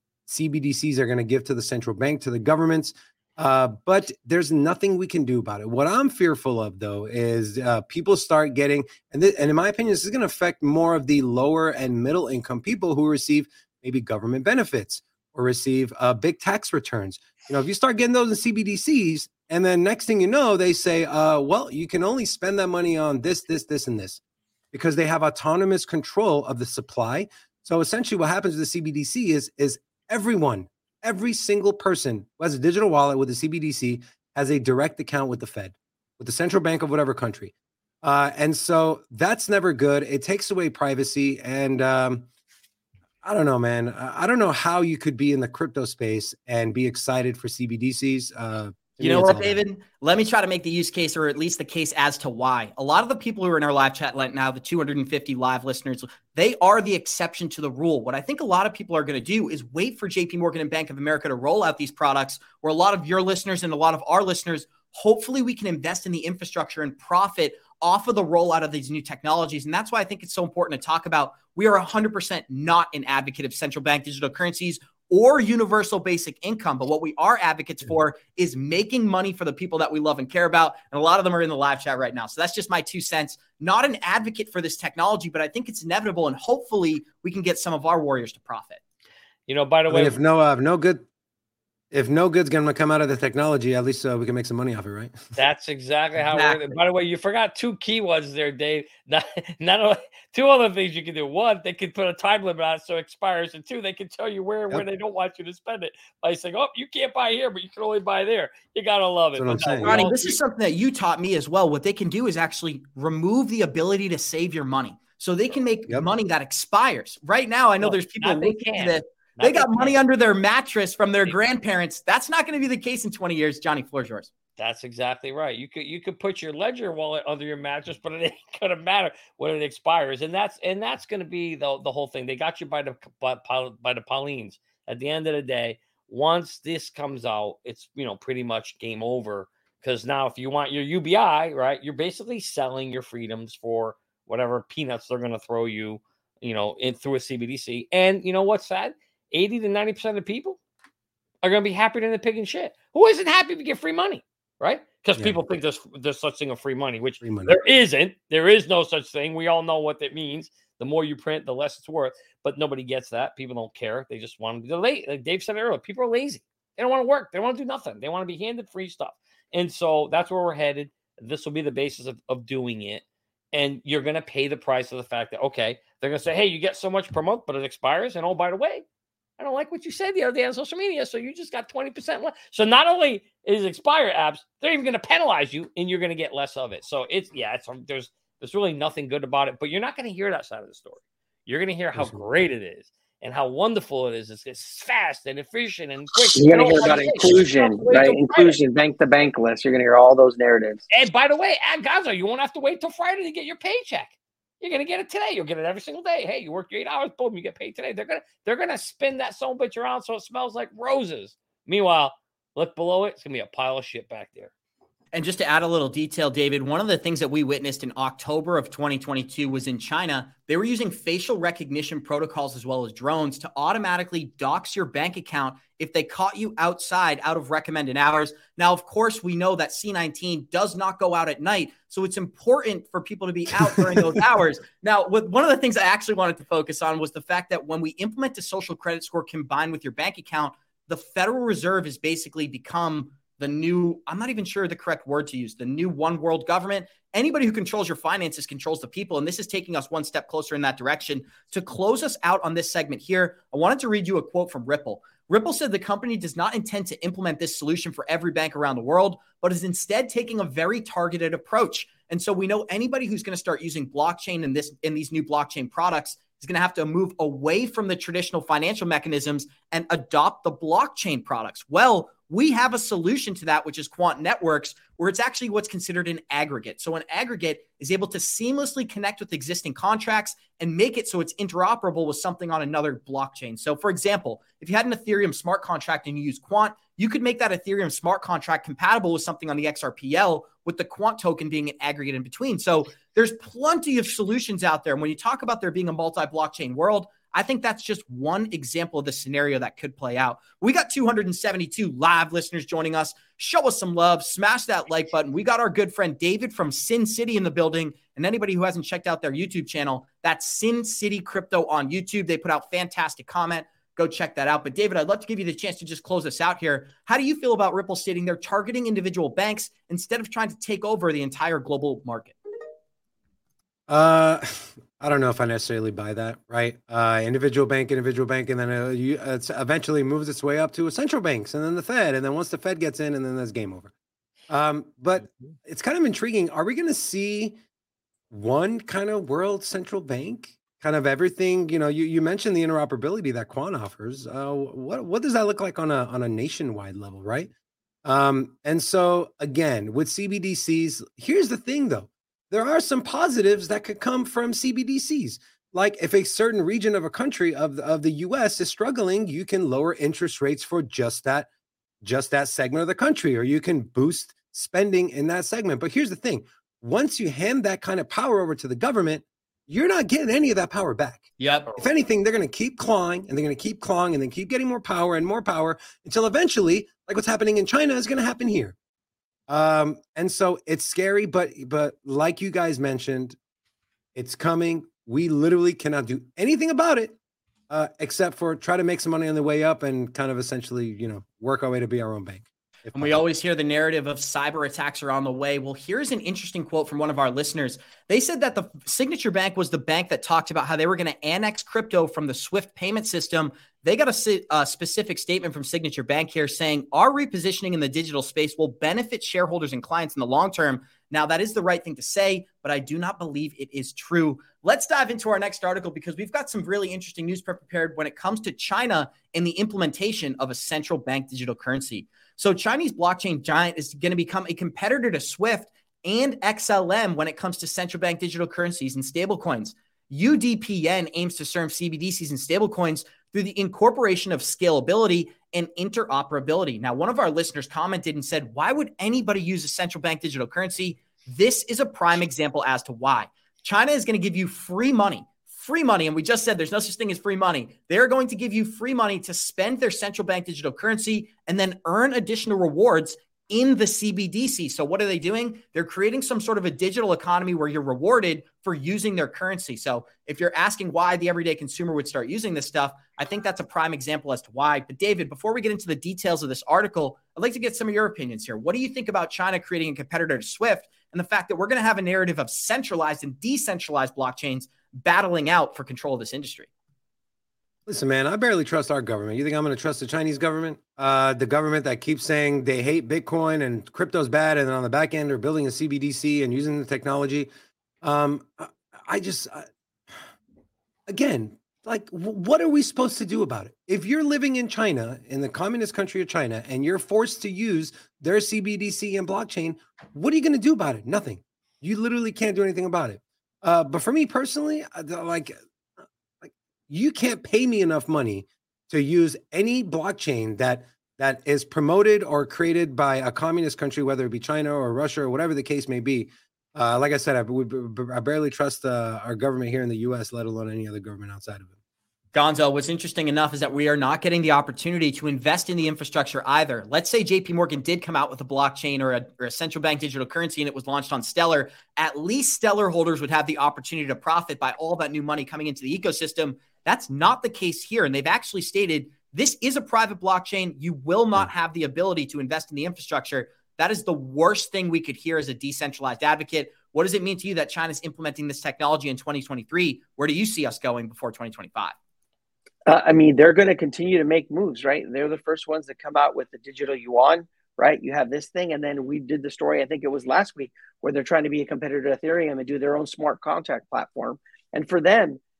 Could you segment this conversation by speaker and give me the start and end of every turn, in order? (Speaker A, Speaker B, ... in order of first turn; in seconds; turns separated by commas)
Speaker A: 0.3-24.2, Speaker A: 24.7-42.2, Speaker A: 43.2-49.6, Speaker B: 49.0-88.8, Speaker C: 89.5-90.1, Speaker A: 89.9-91.0, Speaker A: 91.9-95.2, Speaker C: 95.3-110.4, Speaker B: 96.3-96.7, Speaker A: 109.4-110.0, Speaker B: 109.8-124.3, Speaker C: 117.8-120.0, Speaker C: 124.6-150.6, Speaker C: 151.4-178.8, Speaker A: 157.2-157.6, Speaker C: 179.4-198.6, Speaker D: 196.3-200.8, Speaker C: 200.9-214.5, Speaker B: 215.1-322.4, Speaker A: 233.7-234.1, Speaker A: 323.9-333.9, Speaker A: 334.5-337.6, Speaker A: 338.3-347.5, Speaker A: 348.0-361.5, Speaker A: 362.0-378.7, Speaker B: 371.4-371.8, Speaker A: 379.5-383.4, Speaker A: 384.1-387.1, Speaker A: 387.7-393.2, Speaker B: 392.9-476.7, Speaker A: 477.9-487.5, Speaker A: 488.0-489.7, Speaker A: 491.1-505.6, Speaker A: 506.4-521.7, Speaker B: 522.3-551.9, Speaker D: 552.9-565.4